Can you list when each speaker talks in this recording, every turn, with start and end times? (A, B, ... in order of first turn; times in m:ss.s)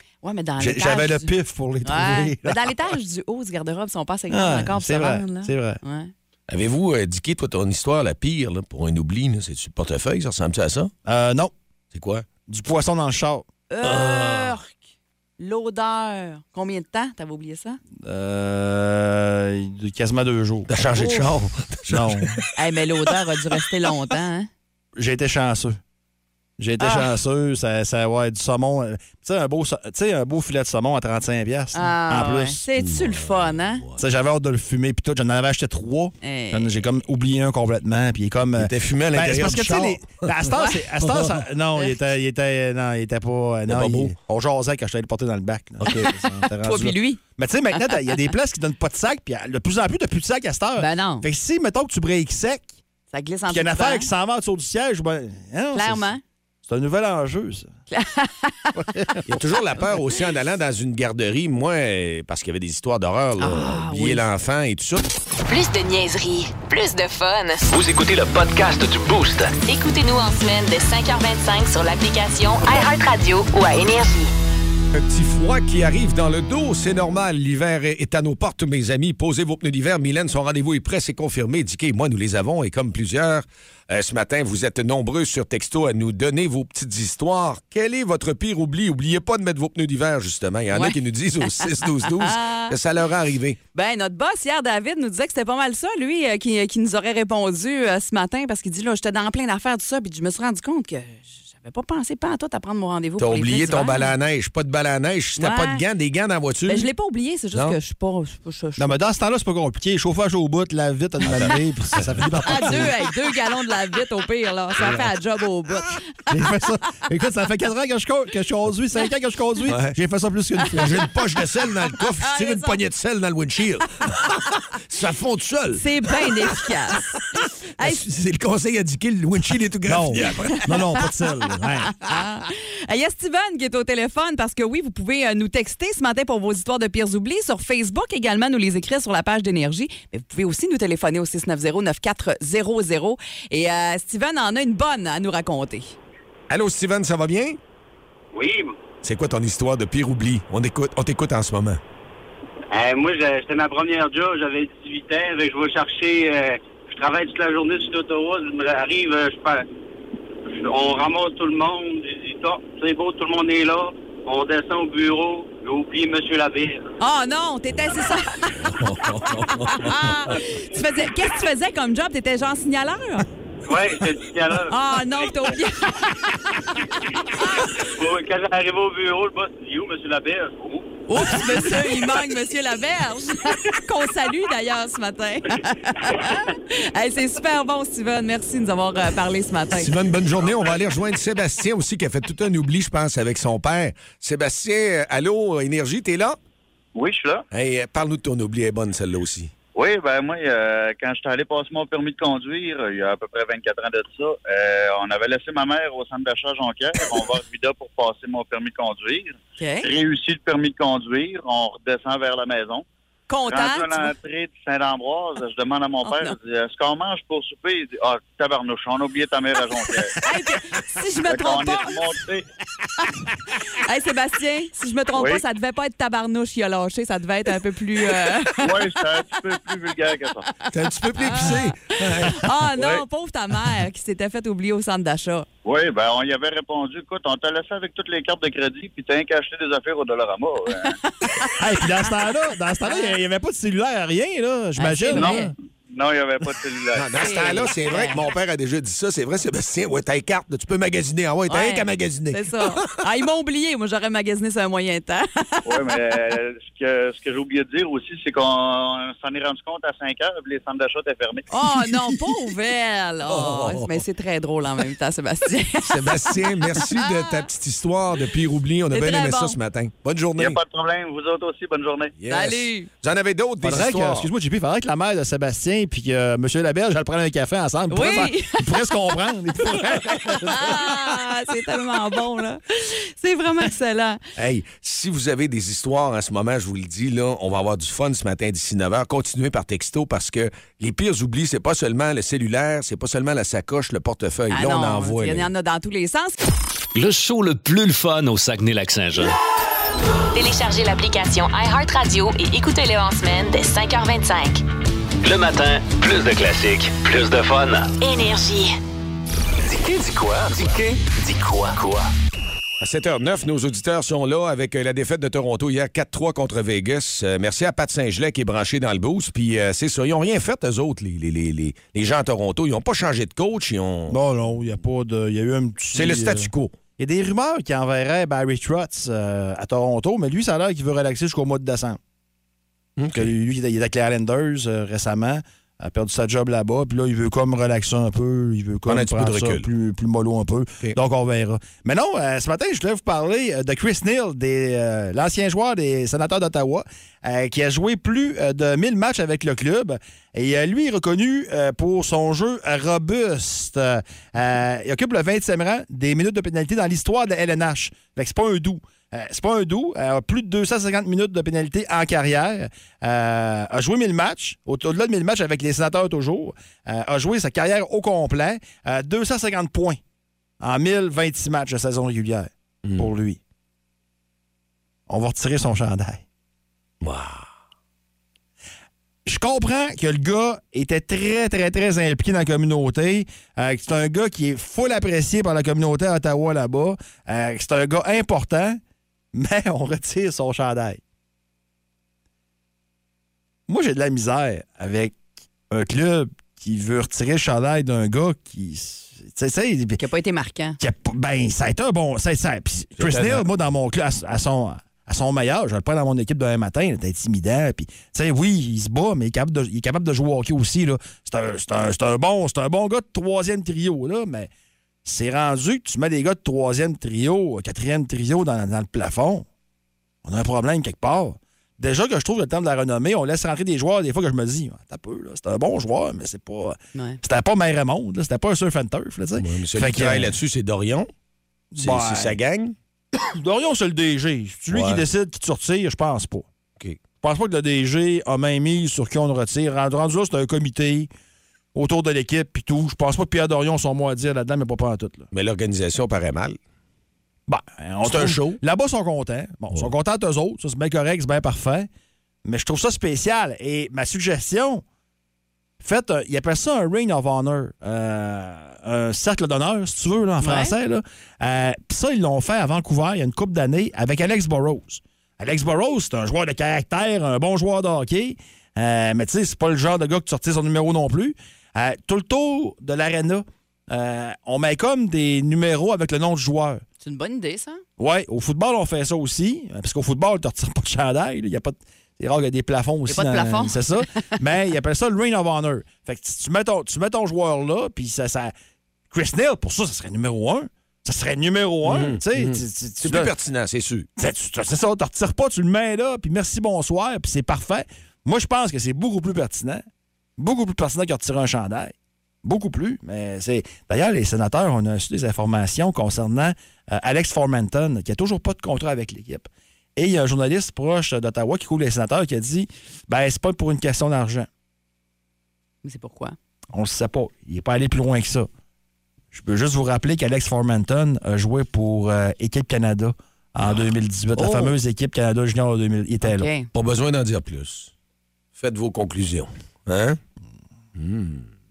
0:00.2-0:01.3 A
0:00.6-0:02.6 B
0:01.8-0:06.1 A
0:04.3-0:05.8 B
0:06.5-0:10.9 C
0:11.1-0:11.5 B
0:11.9-0:12.3 C
0:12.5-0:13.5 B
0:13.7-0:14.7 A
0:13.8-0:14.6 C
0:15.4-0:17.8 A
0:18.0-0:20.7 B
0:20.7-0:22.5 C
0:21.0-0:21.2 A
0:21.9-0:22.4 B
0:22.6-0:24.5 A
0:25.0-0:25.8 B
0:26.6-0:32.6 B
0:26.8-0:27.1 A
0:31.7-0:33.8 A
0:32.8-0:34.0 C
0:34.0-0:52.8 B
0:36.2-0:36.8 A
0:38.6-0:40.1 C
0:40.5-0:40.8 A
0:43.7-0:44.1 C
0:46.1-0:47.2 A
0:47.8-0:48.2 A
0:50.8-0:51.3 A
0:53.1-0:54.1 A
0:53.5-0:56.1 B
0:55.7-0:56.2 A
0:56.7-0:57.7 B
0:57.9-0:58.7 A
0:58.7-0:59.3 B
0:59.3-1:05.1 C
1:03.4-1:04.2 A
1:05.5-1:07.6 D
1:07.7-1:09.6 E
1:09.6-1:14.3 D
1:14.9-1:33.6 C
1:30.7-1:32.8 A
1:33.7-1:44.1 A
1:43.2-1:46.9 C
1:45.4-1:45.8 A
1:46.7-1:48.9 A
1:48.8-1:52.9 B
1:51.2-1:52.8 C
1:52.4-1:56.2 A
1:56.3-2:01.0 B
1:59.7-2:00.0 C
2:00.8-2:06.7 C
2:02.0-2:02.8 A
2:05.7-2:07.2 A
2:07.3-2:10.8 C
2:09.8-2:12.0 B
2:10.8-2:11.0 A
2:11.9-2:26.0 A
2:26.5-2:27.6 C
2:28.3-2:28.7 F
2:29.0-2:31.8 C
2:32.7-2:39.6 F
2:40.5-2:46.9 F
2:47.0-2:48.8 A
2:48.6-2:50.1 C
2:49.3-2:53.3 A
2:53.6-2:55.3 F
2:54.7-2:56.8 A
2:57.6-3:00.9 F
3:01.1-3:09.9 A
3:09.7-3:16.4 C
3:17.0-3:17.4 G
3:17.5-3:19.5 C
3:19.8-3:32.8 G
3:29.6-3:29.9 A
3:33.3-3:34.1 A
3:33.5-3:40.2 G
3:36.0-3:36.4 A
3:40.2-3:42.0 A
3:41.3-3:42.4 G
3:43.7-3:48.8 A
3:48.6-3:50.5 G
3:50.7-3:52.4 C
3:51.2-3:55.5 A
3:55.6-4:01.0 G
4:01.1-4:01.6 A
4:01.6-4:05.5 B
4:02.9-4:03.1 A
4:04.8-4:05.5 A
4:05.2-4:07.7 G
4:07.0-4:13.0 C
4:07.2-4:08.2 A
4:11.5-4:15.7 A
4:15.7-4:21.5 G
4:21.5-4:27.4 A
4:23.3-4:24.0 C
4:25.8-4:30.6 C
4:28.9-4:29.6 A
4:30.4-4:32.1 G
4:32.2-4:34.3 C
4:32.3-4:32.9 A
4:33.6-4:40.8 B
4:37.9-4:38.8 A
4:40.4-4:44.2 A
4:44.4-4:55.5 C
4:54.5-4:56.4 A
4:56.9-4:59.4 E
5:00.3-5:04.6 D
5:05.2-5:08.0 E
5:08.0-5:08.8 D
5:09.6-5:12.1 E
5:12.8-5:24.2 C
5:24.1-5:32.0 B
5:25.9-5:26.8 C
5:33.0-5:33.3 C
5:33.1-6:10.0 B
5:38.9-5:39.7 C
6:10.6-6:13.4 B
6:15.1-6:16.2 B
6:17.0-6:17.5 C
6:19.3-6:28.8 B
6:29.3-6:31.0 B
6:33.7-6:35.2 B
6:35.7-6:40.0 B
6:40.0-6:40.8 A
6:40.8-6:54.5 B
6:43.0-6:43.5 C
6:55.0-6:59.5 B
7:00.2-7:10.4 B
7:07.0-7:07.2 A
7:09.4-7:11.1 C
7:11.7-7:12.4 B
7:11.8-7:12.8 C
7:13.2-7:16.5 B
7:14.7-7:15.0 C
7:17.2-7:21.1 B
7:21.7-7:25.3 B
7:25.3-7:26.6 C
7:27.5-7:31.9 B
7:28.0-7:28.6 C
7:32.4-7:34.8 B
7:35.8-7:56.8 B
7:40.4-7:40.8 A
7:57.0-7:57.8 A
7:58.0-8:08.5 B
8:03.1-8:03.8 A
8:09.1-8:13.3 B
8:11.8-8:14.1 C
8:14.2-8:19.8 B
8:20.4-8:34.5 B
8:35.8-8:36.4 A
8:36.7-8:38.5 B
8:39.3-8:46.5 B
8:44.4-8:44.7 A
8:46.2-8:46.7 A
8:46.7-8:47.9 C
8:48.6-8:50.2 C
8:51.0-8:51.4 C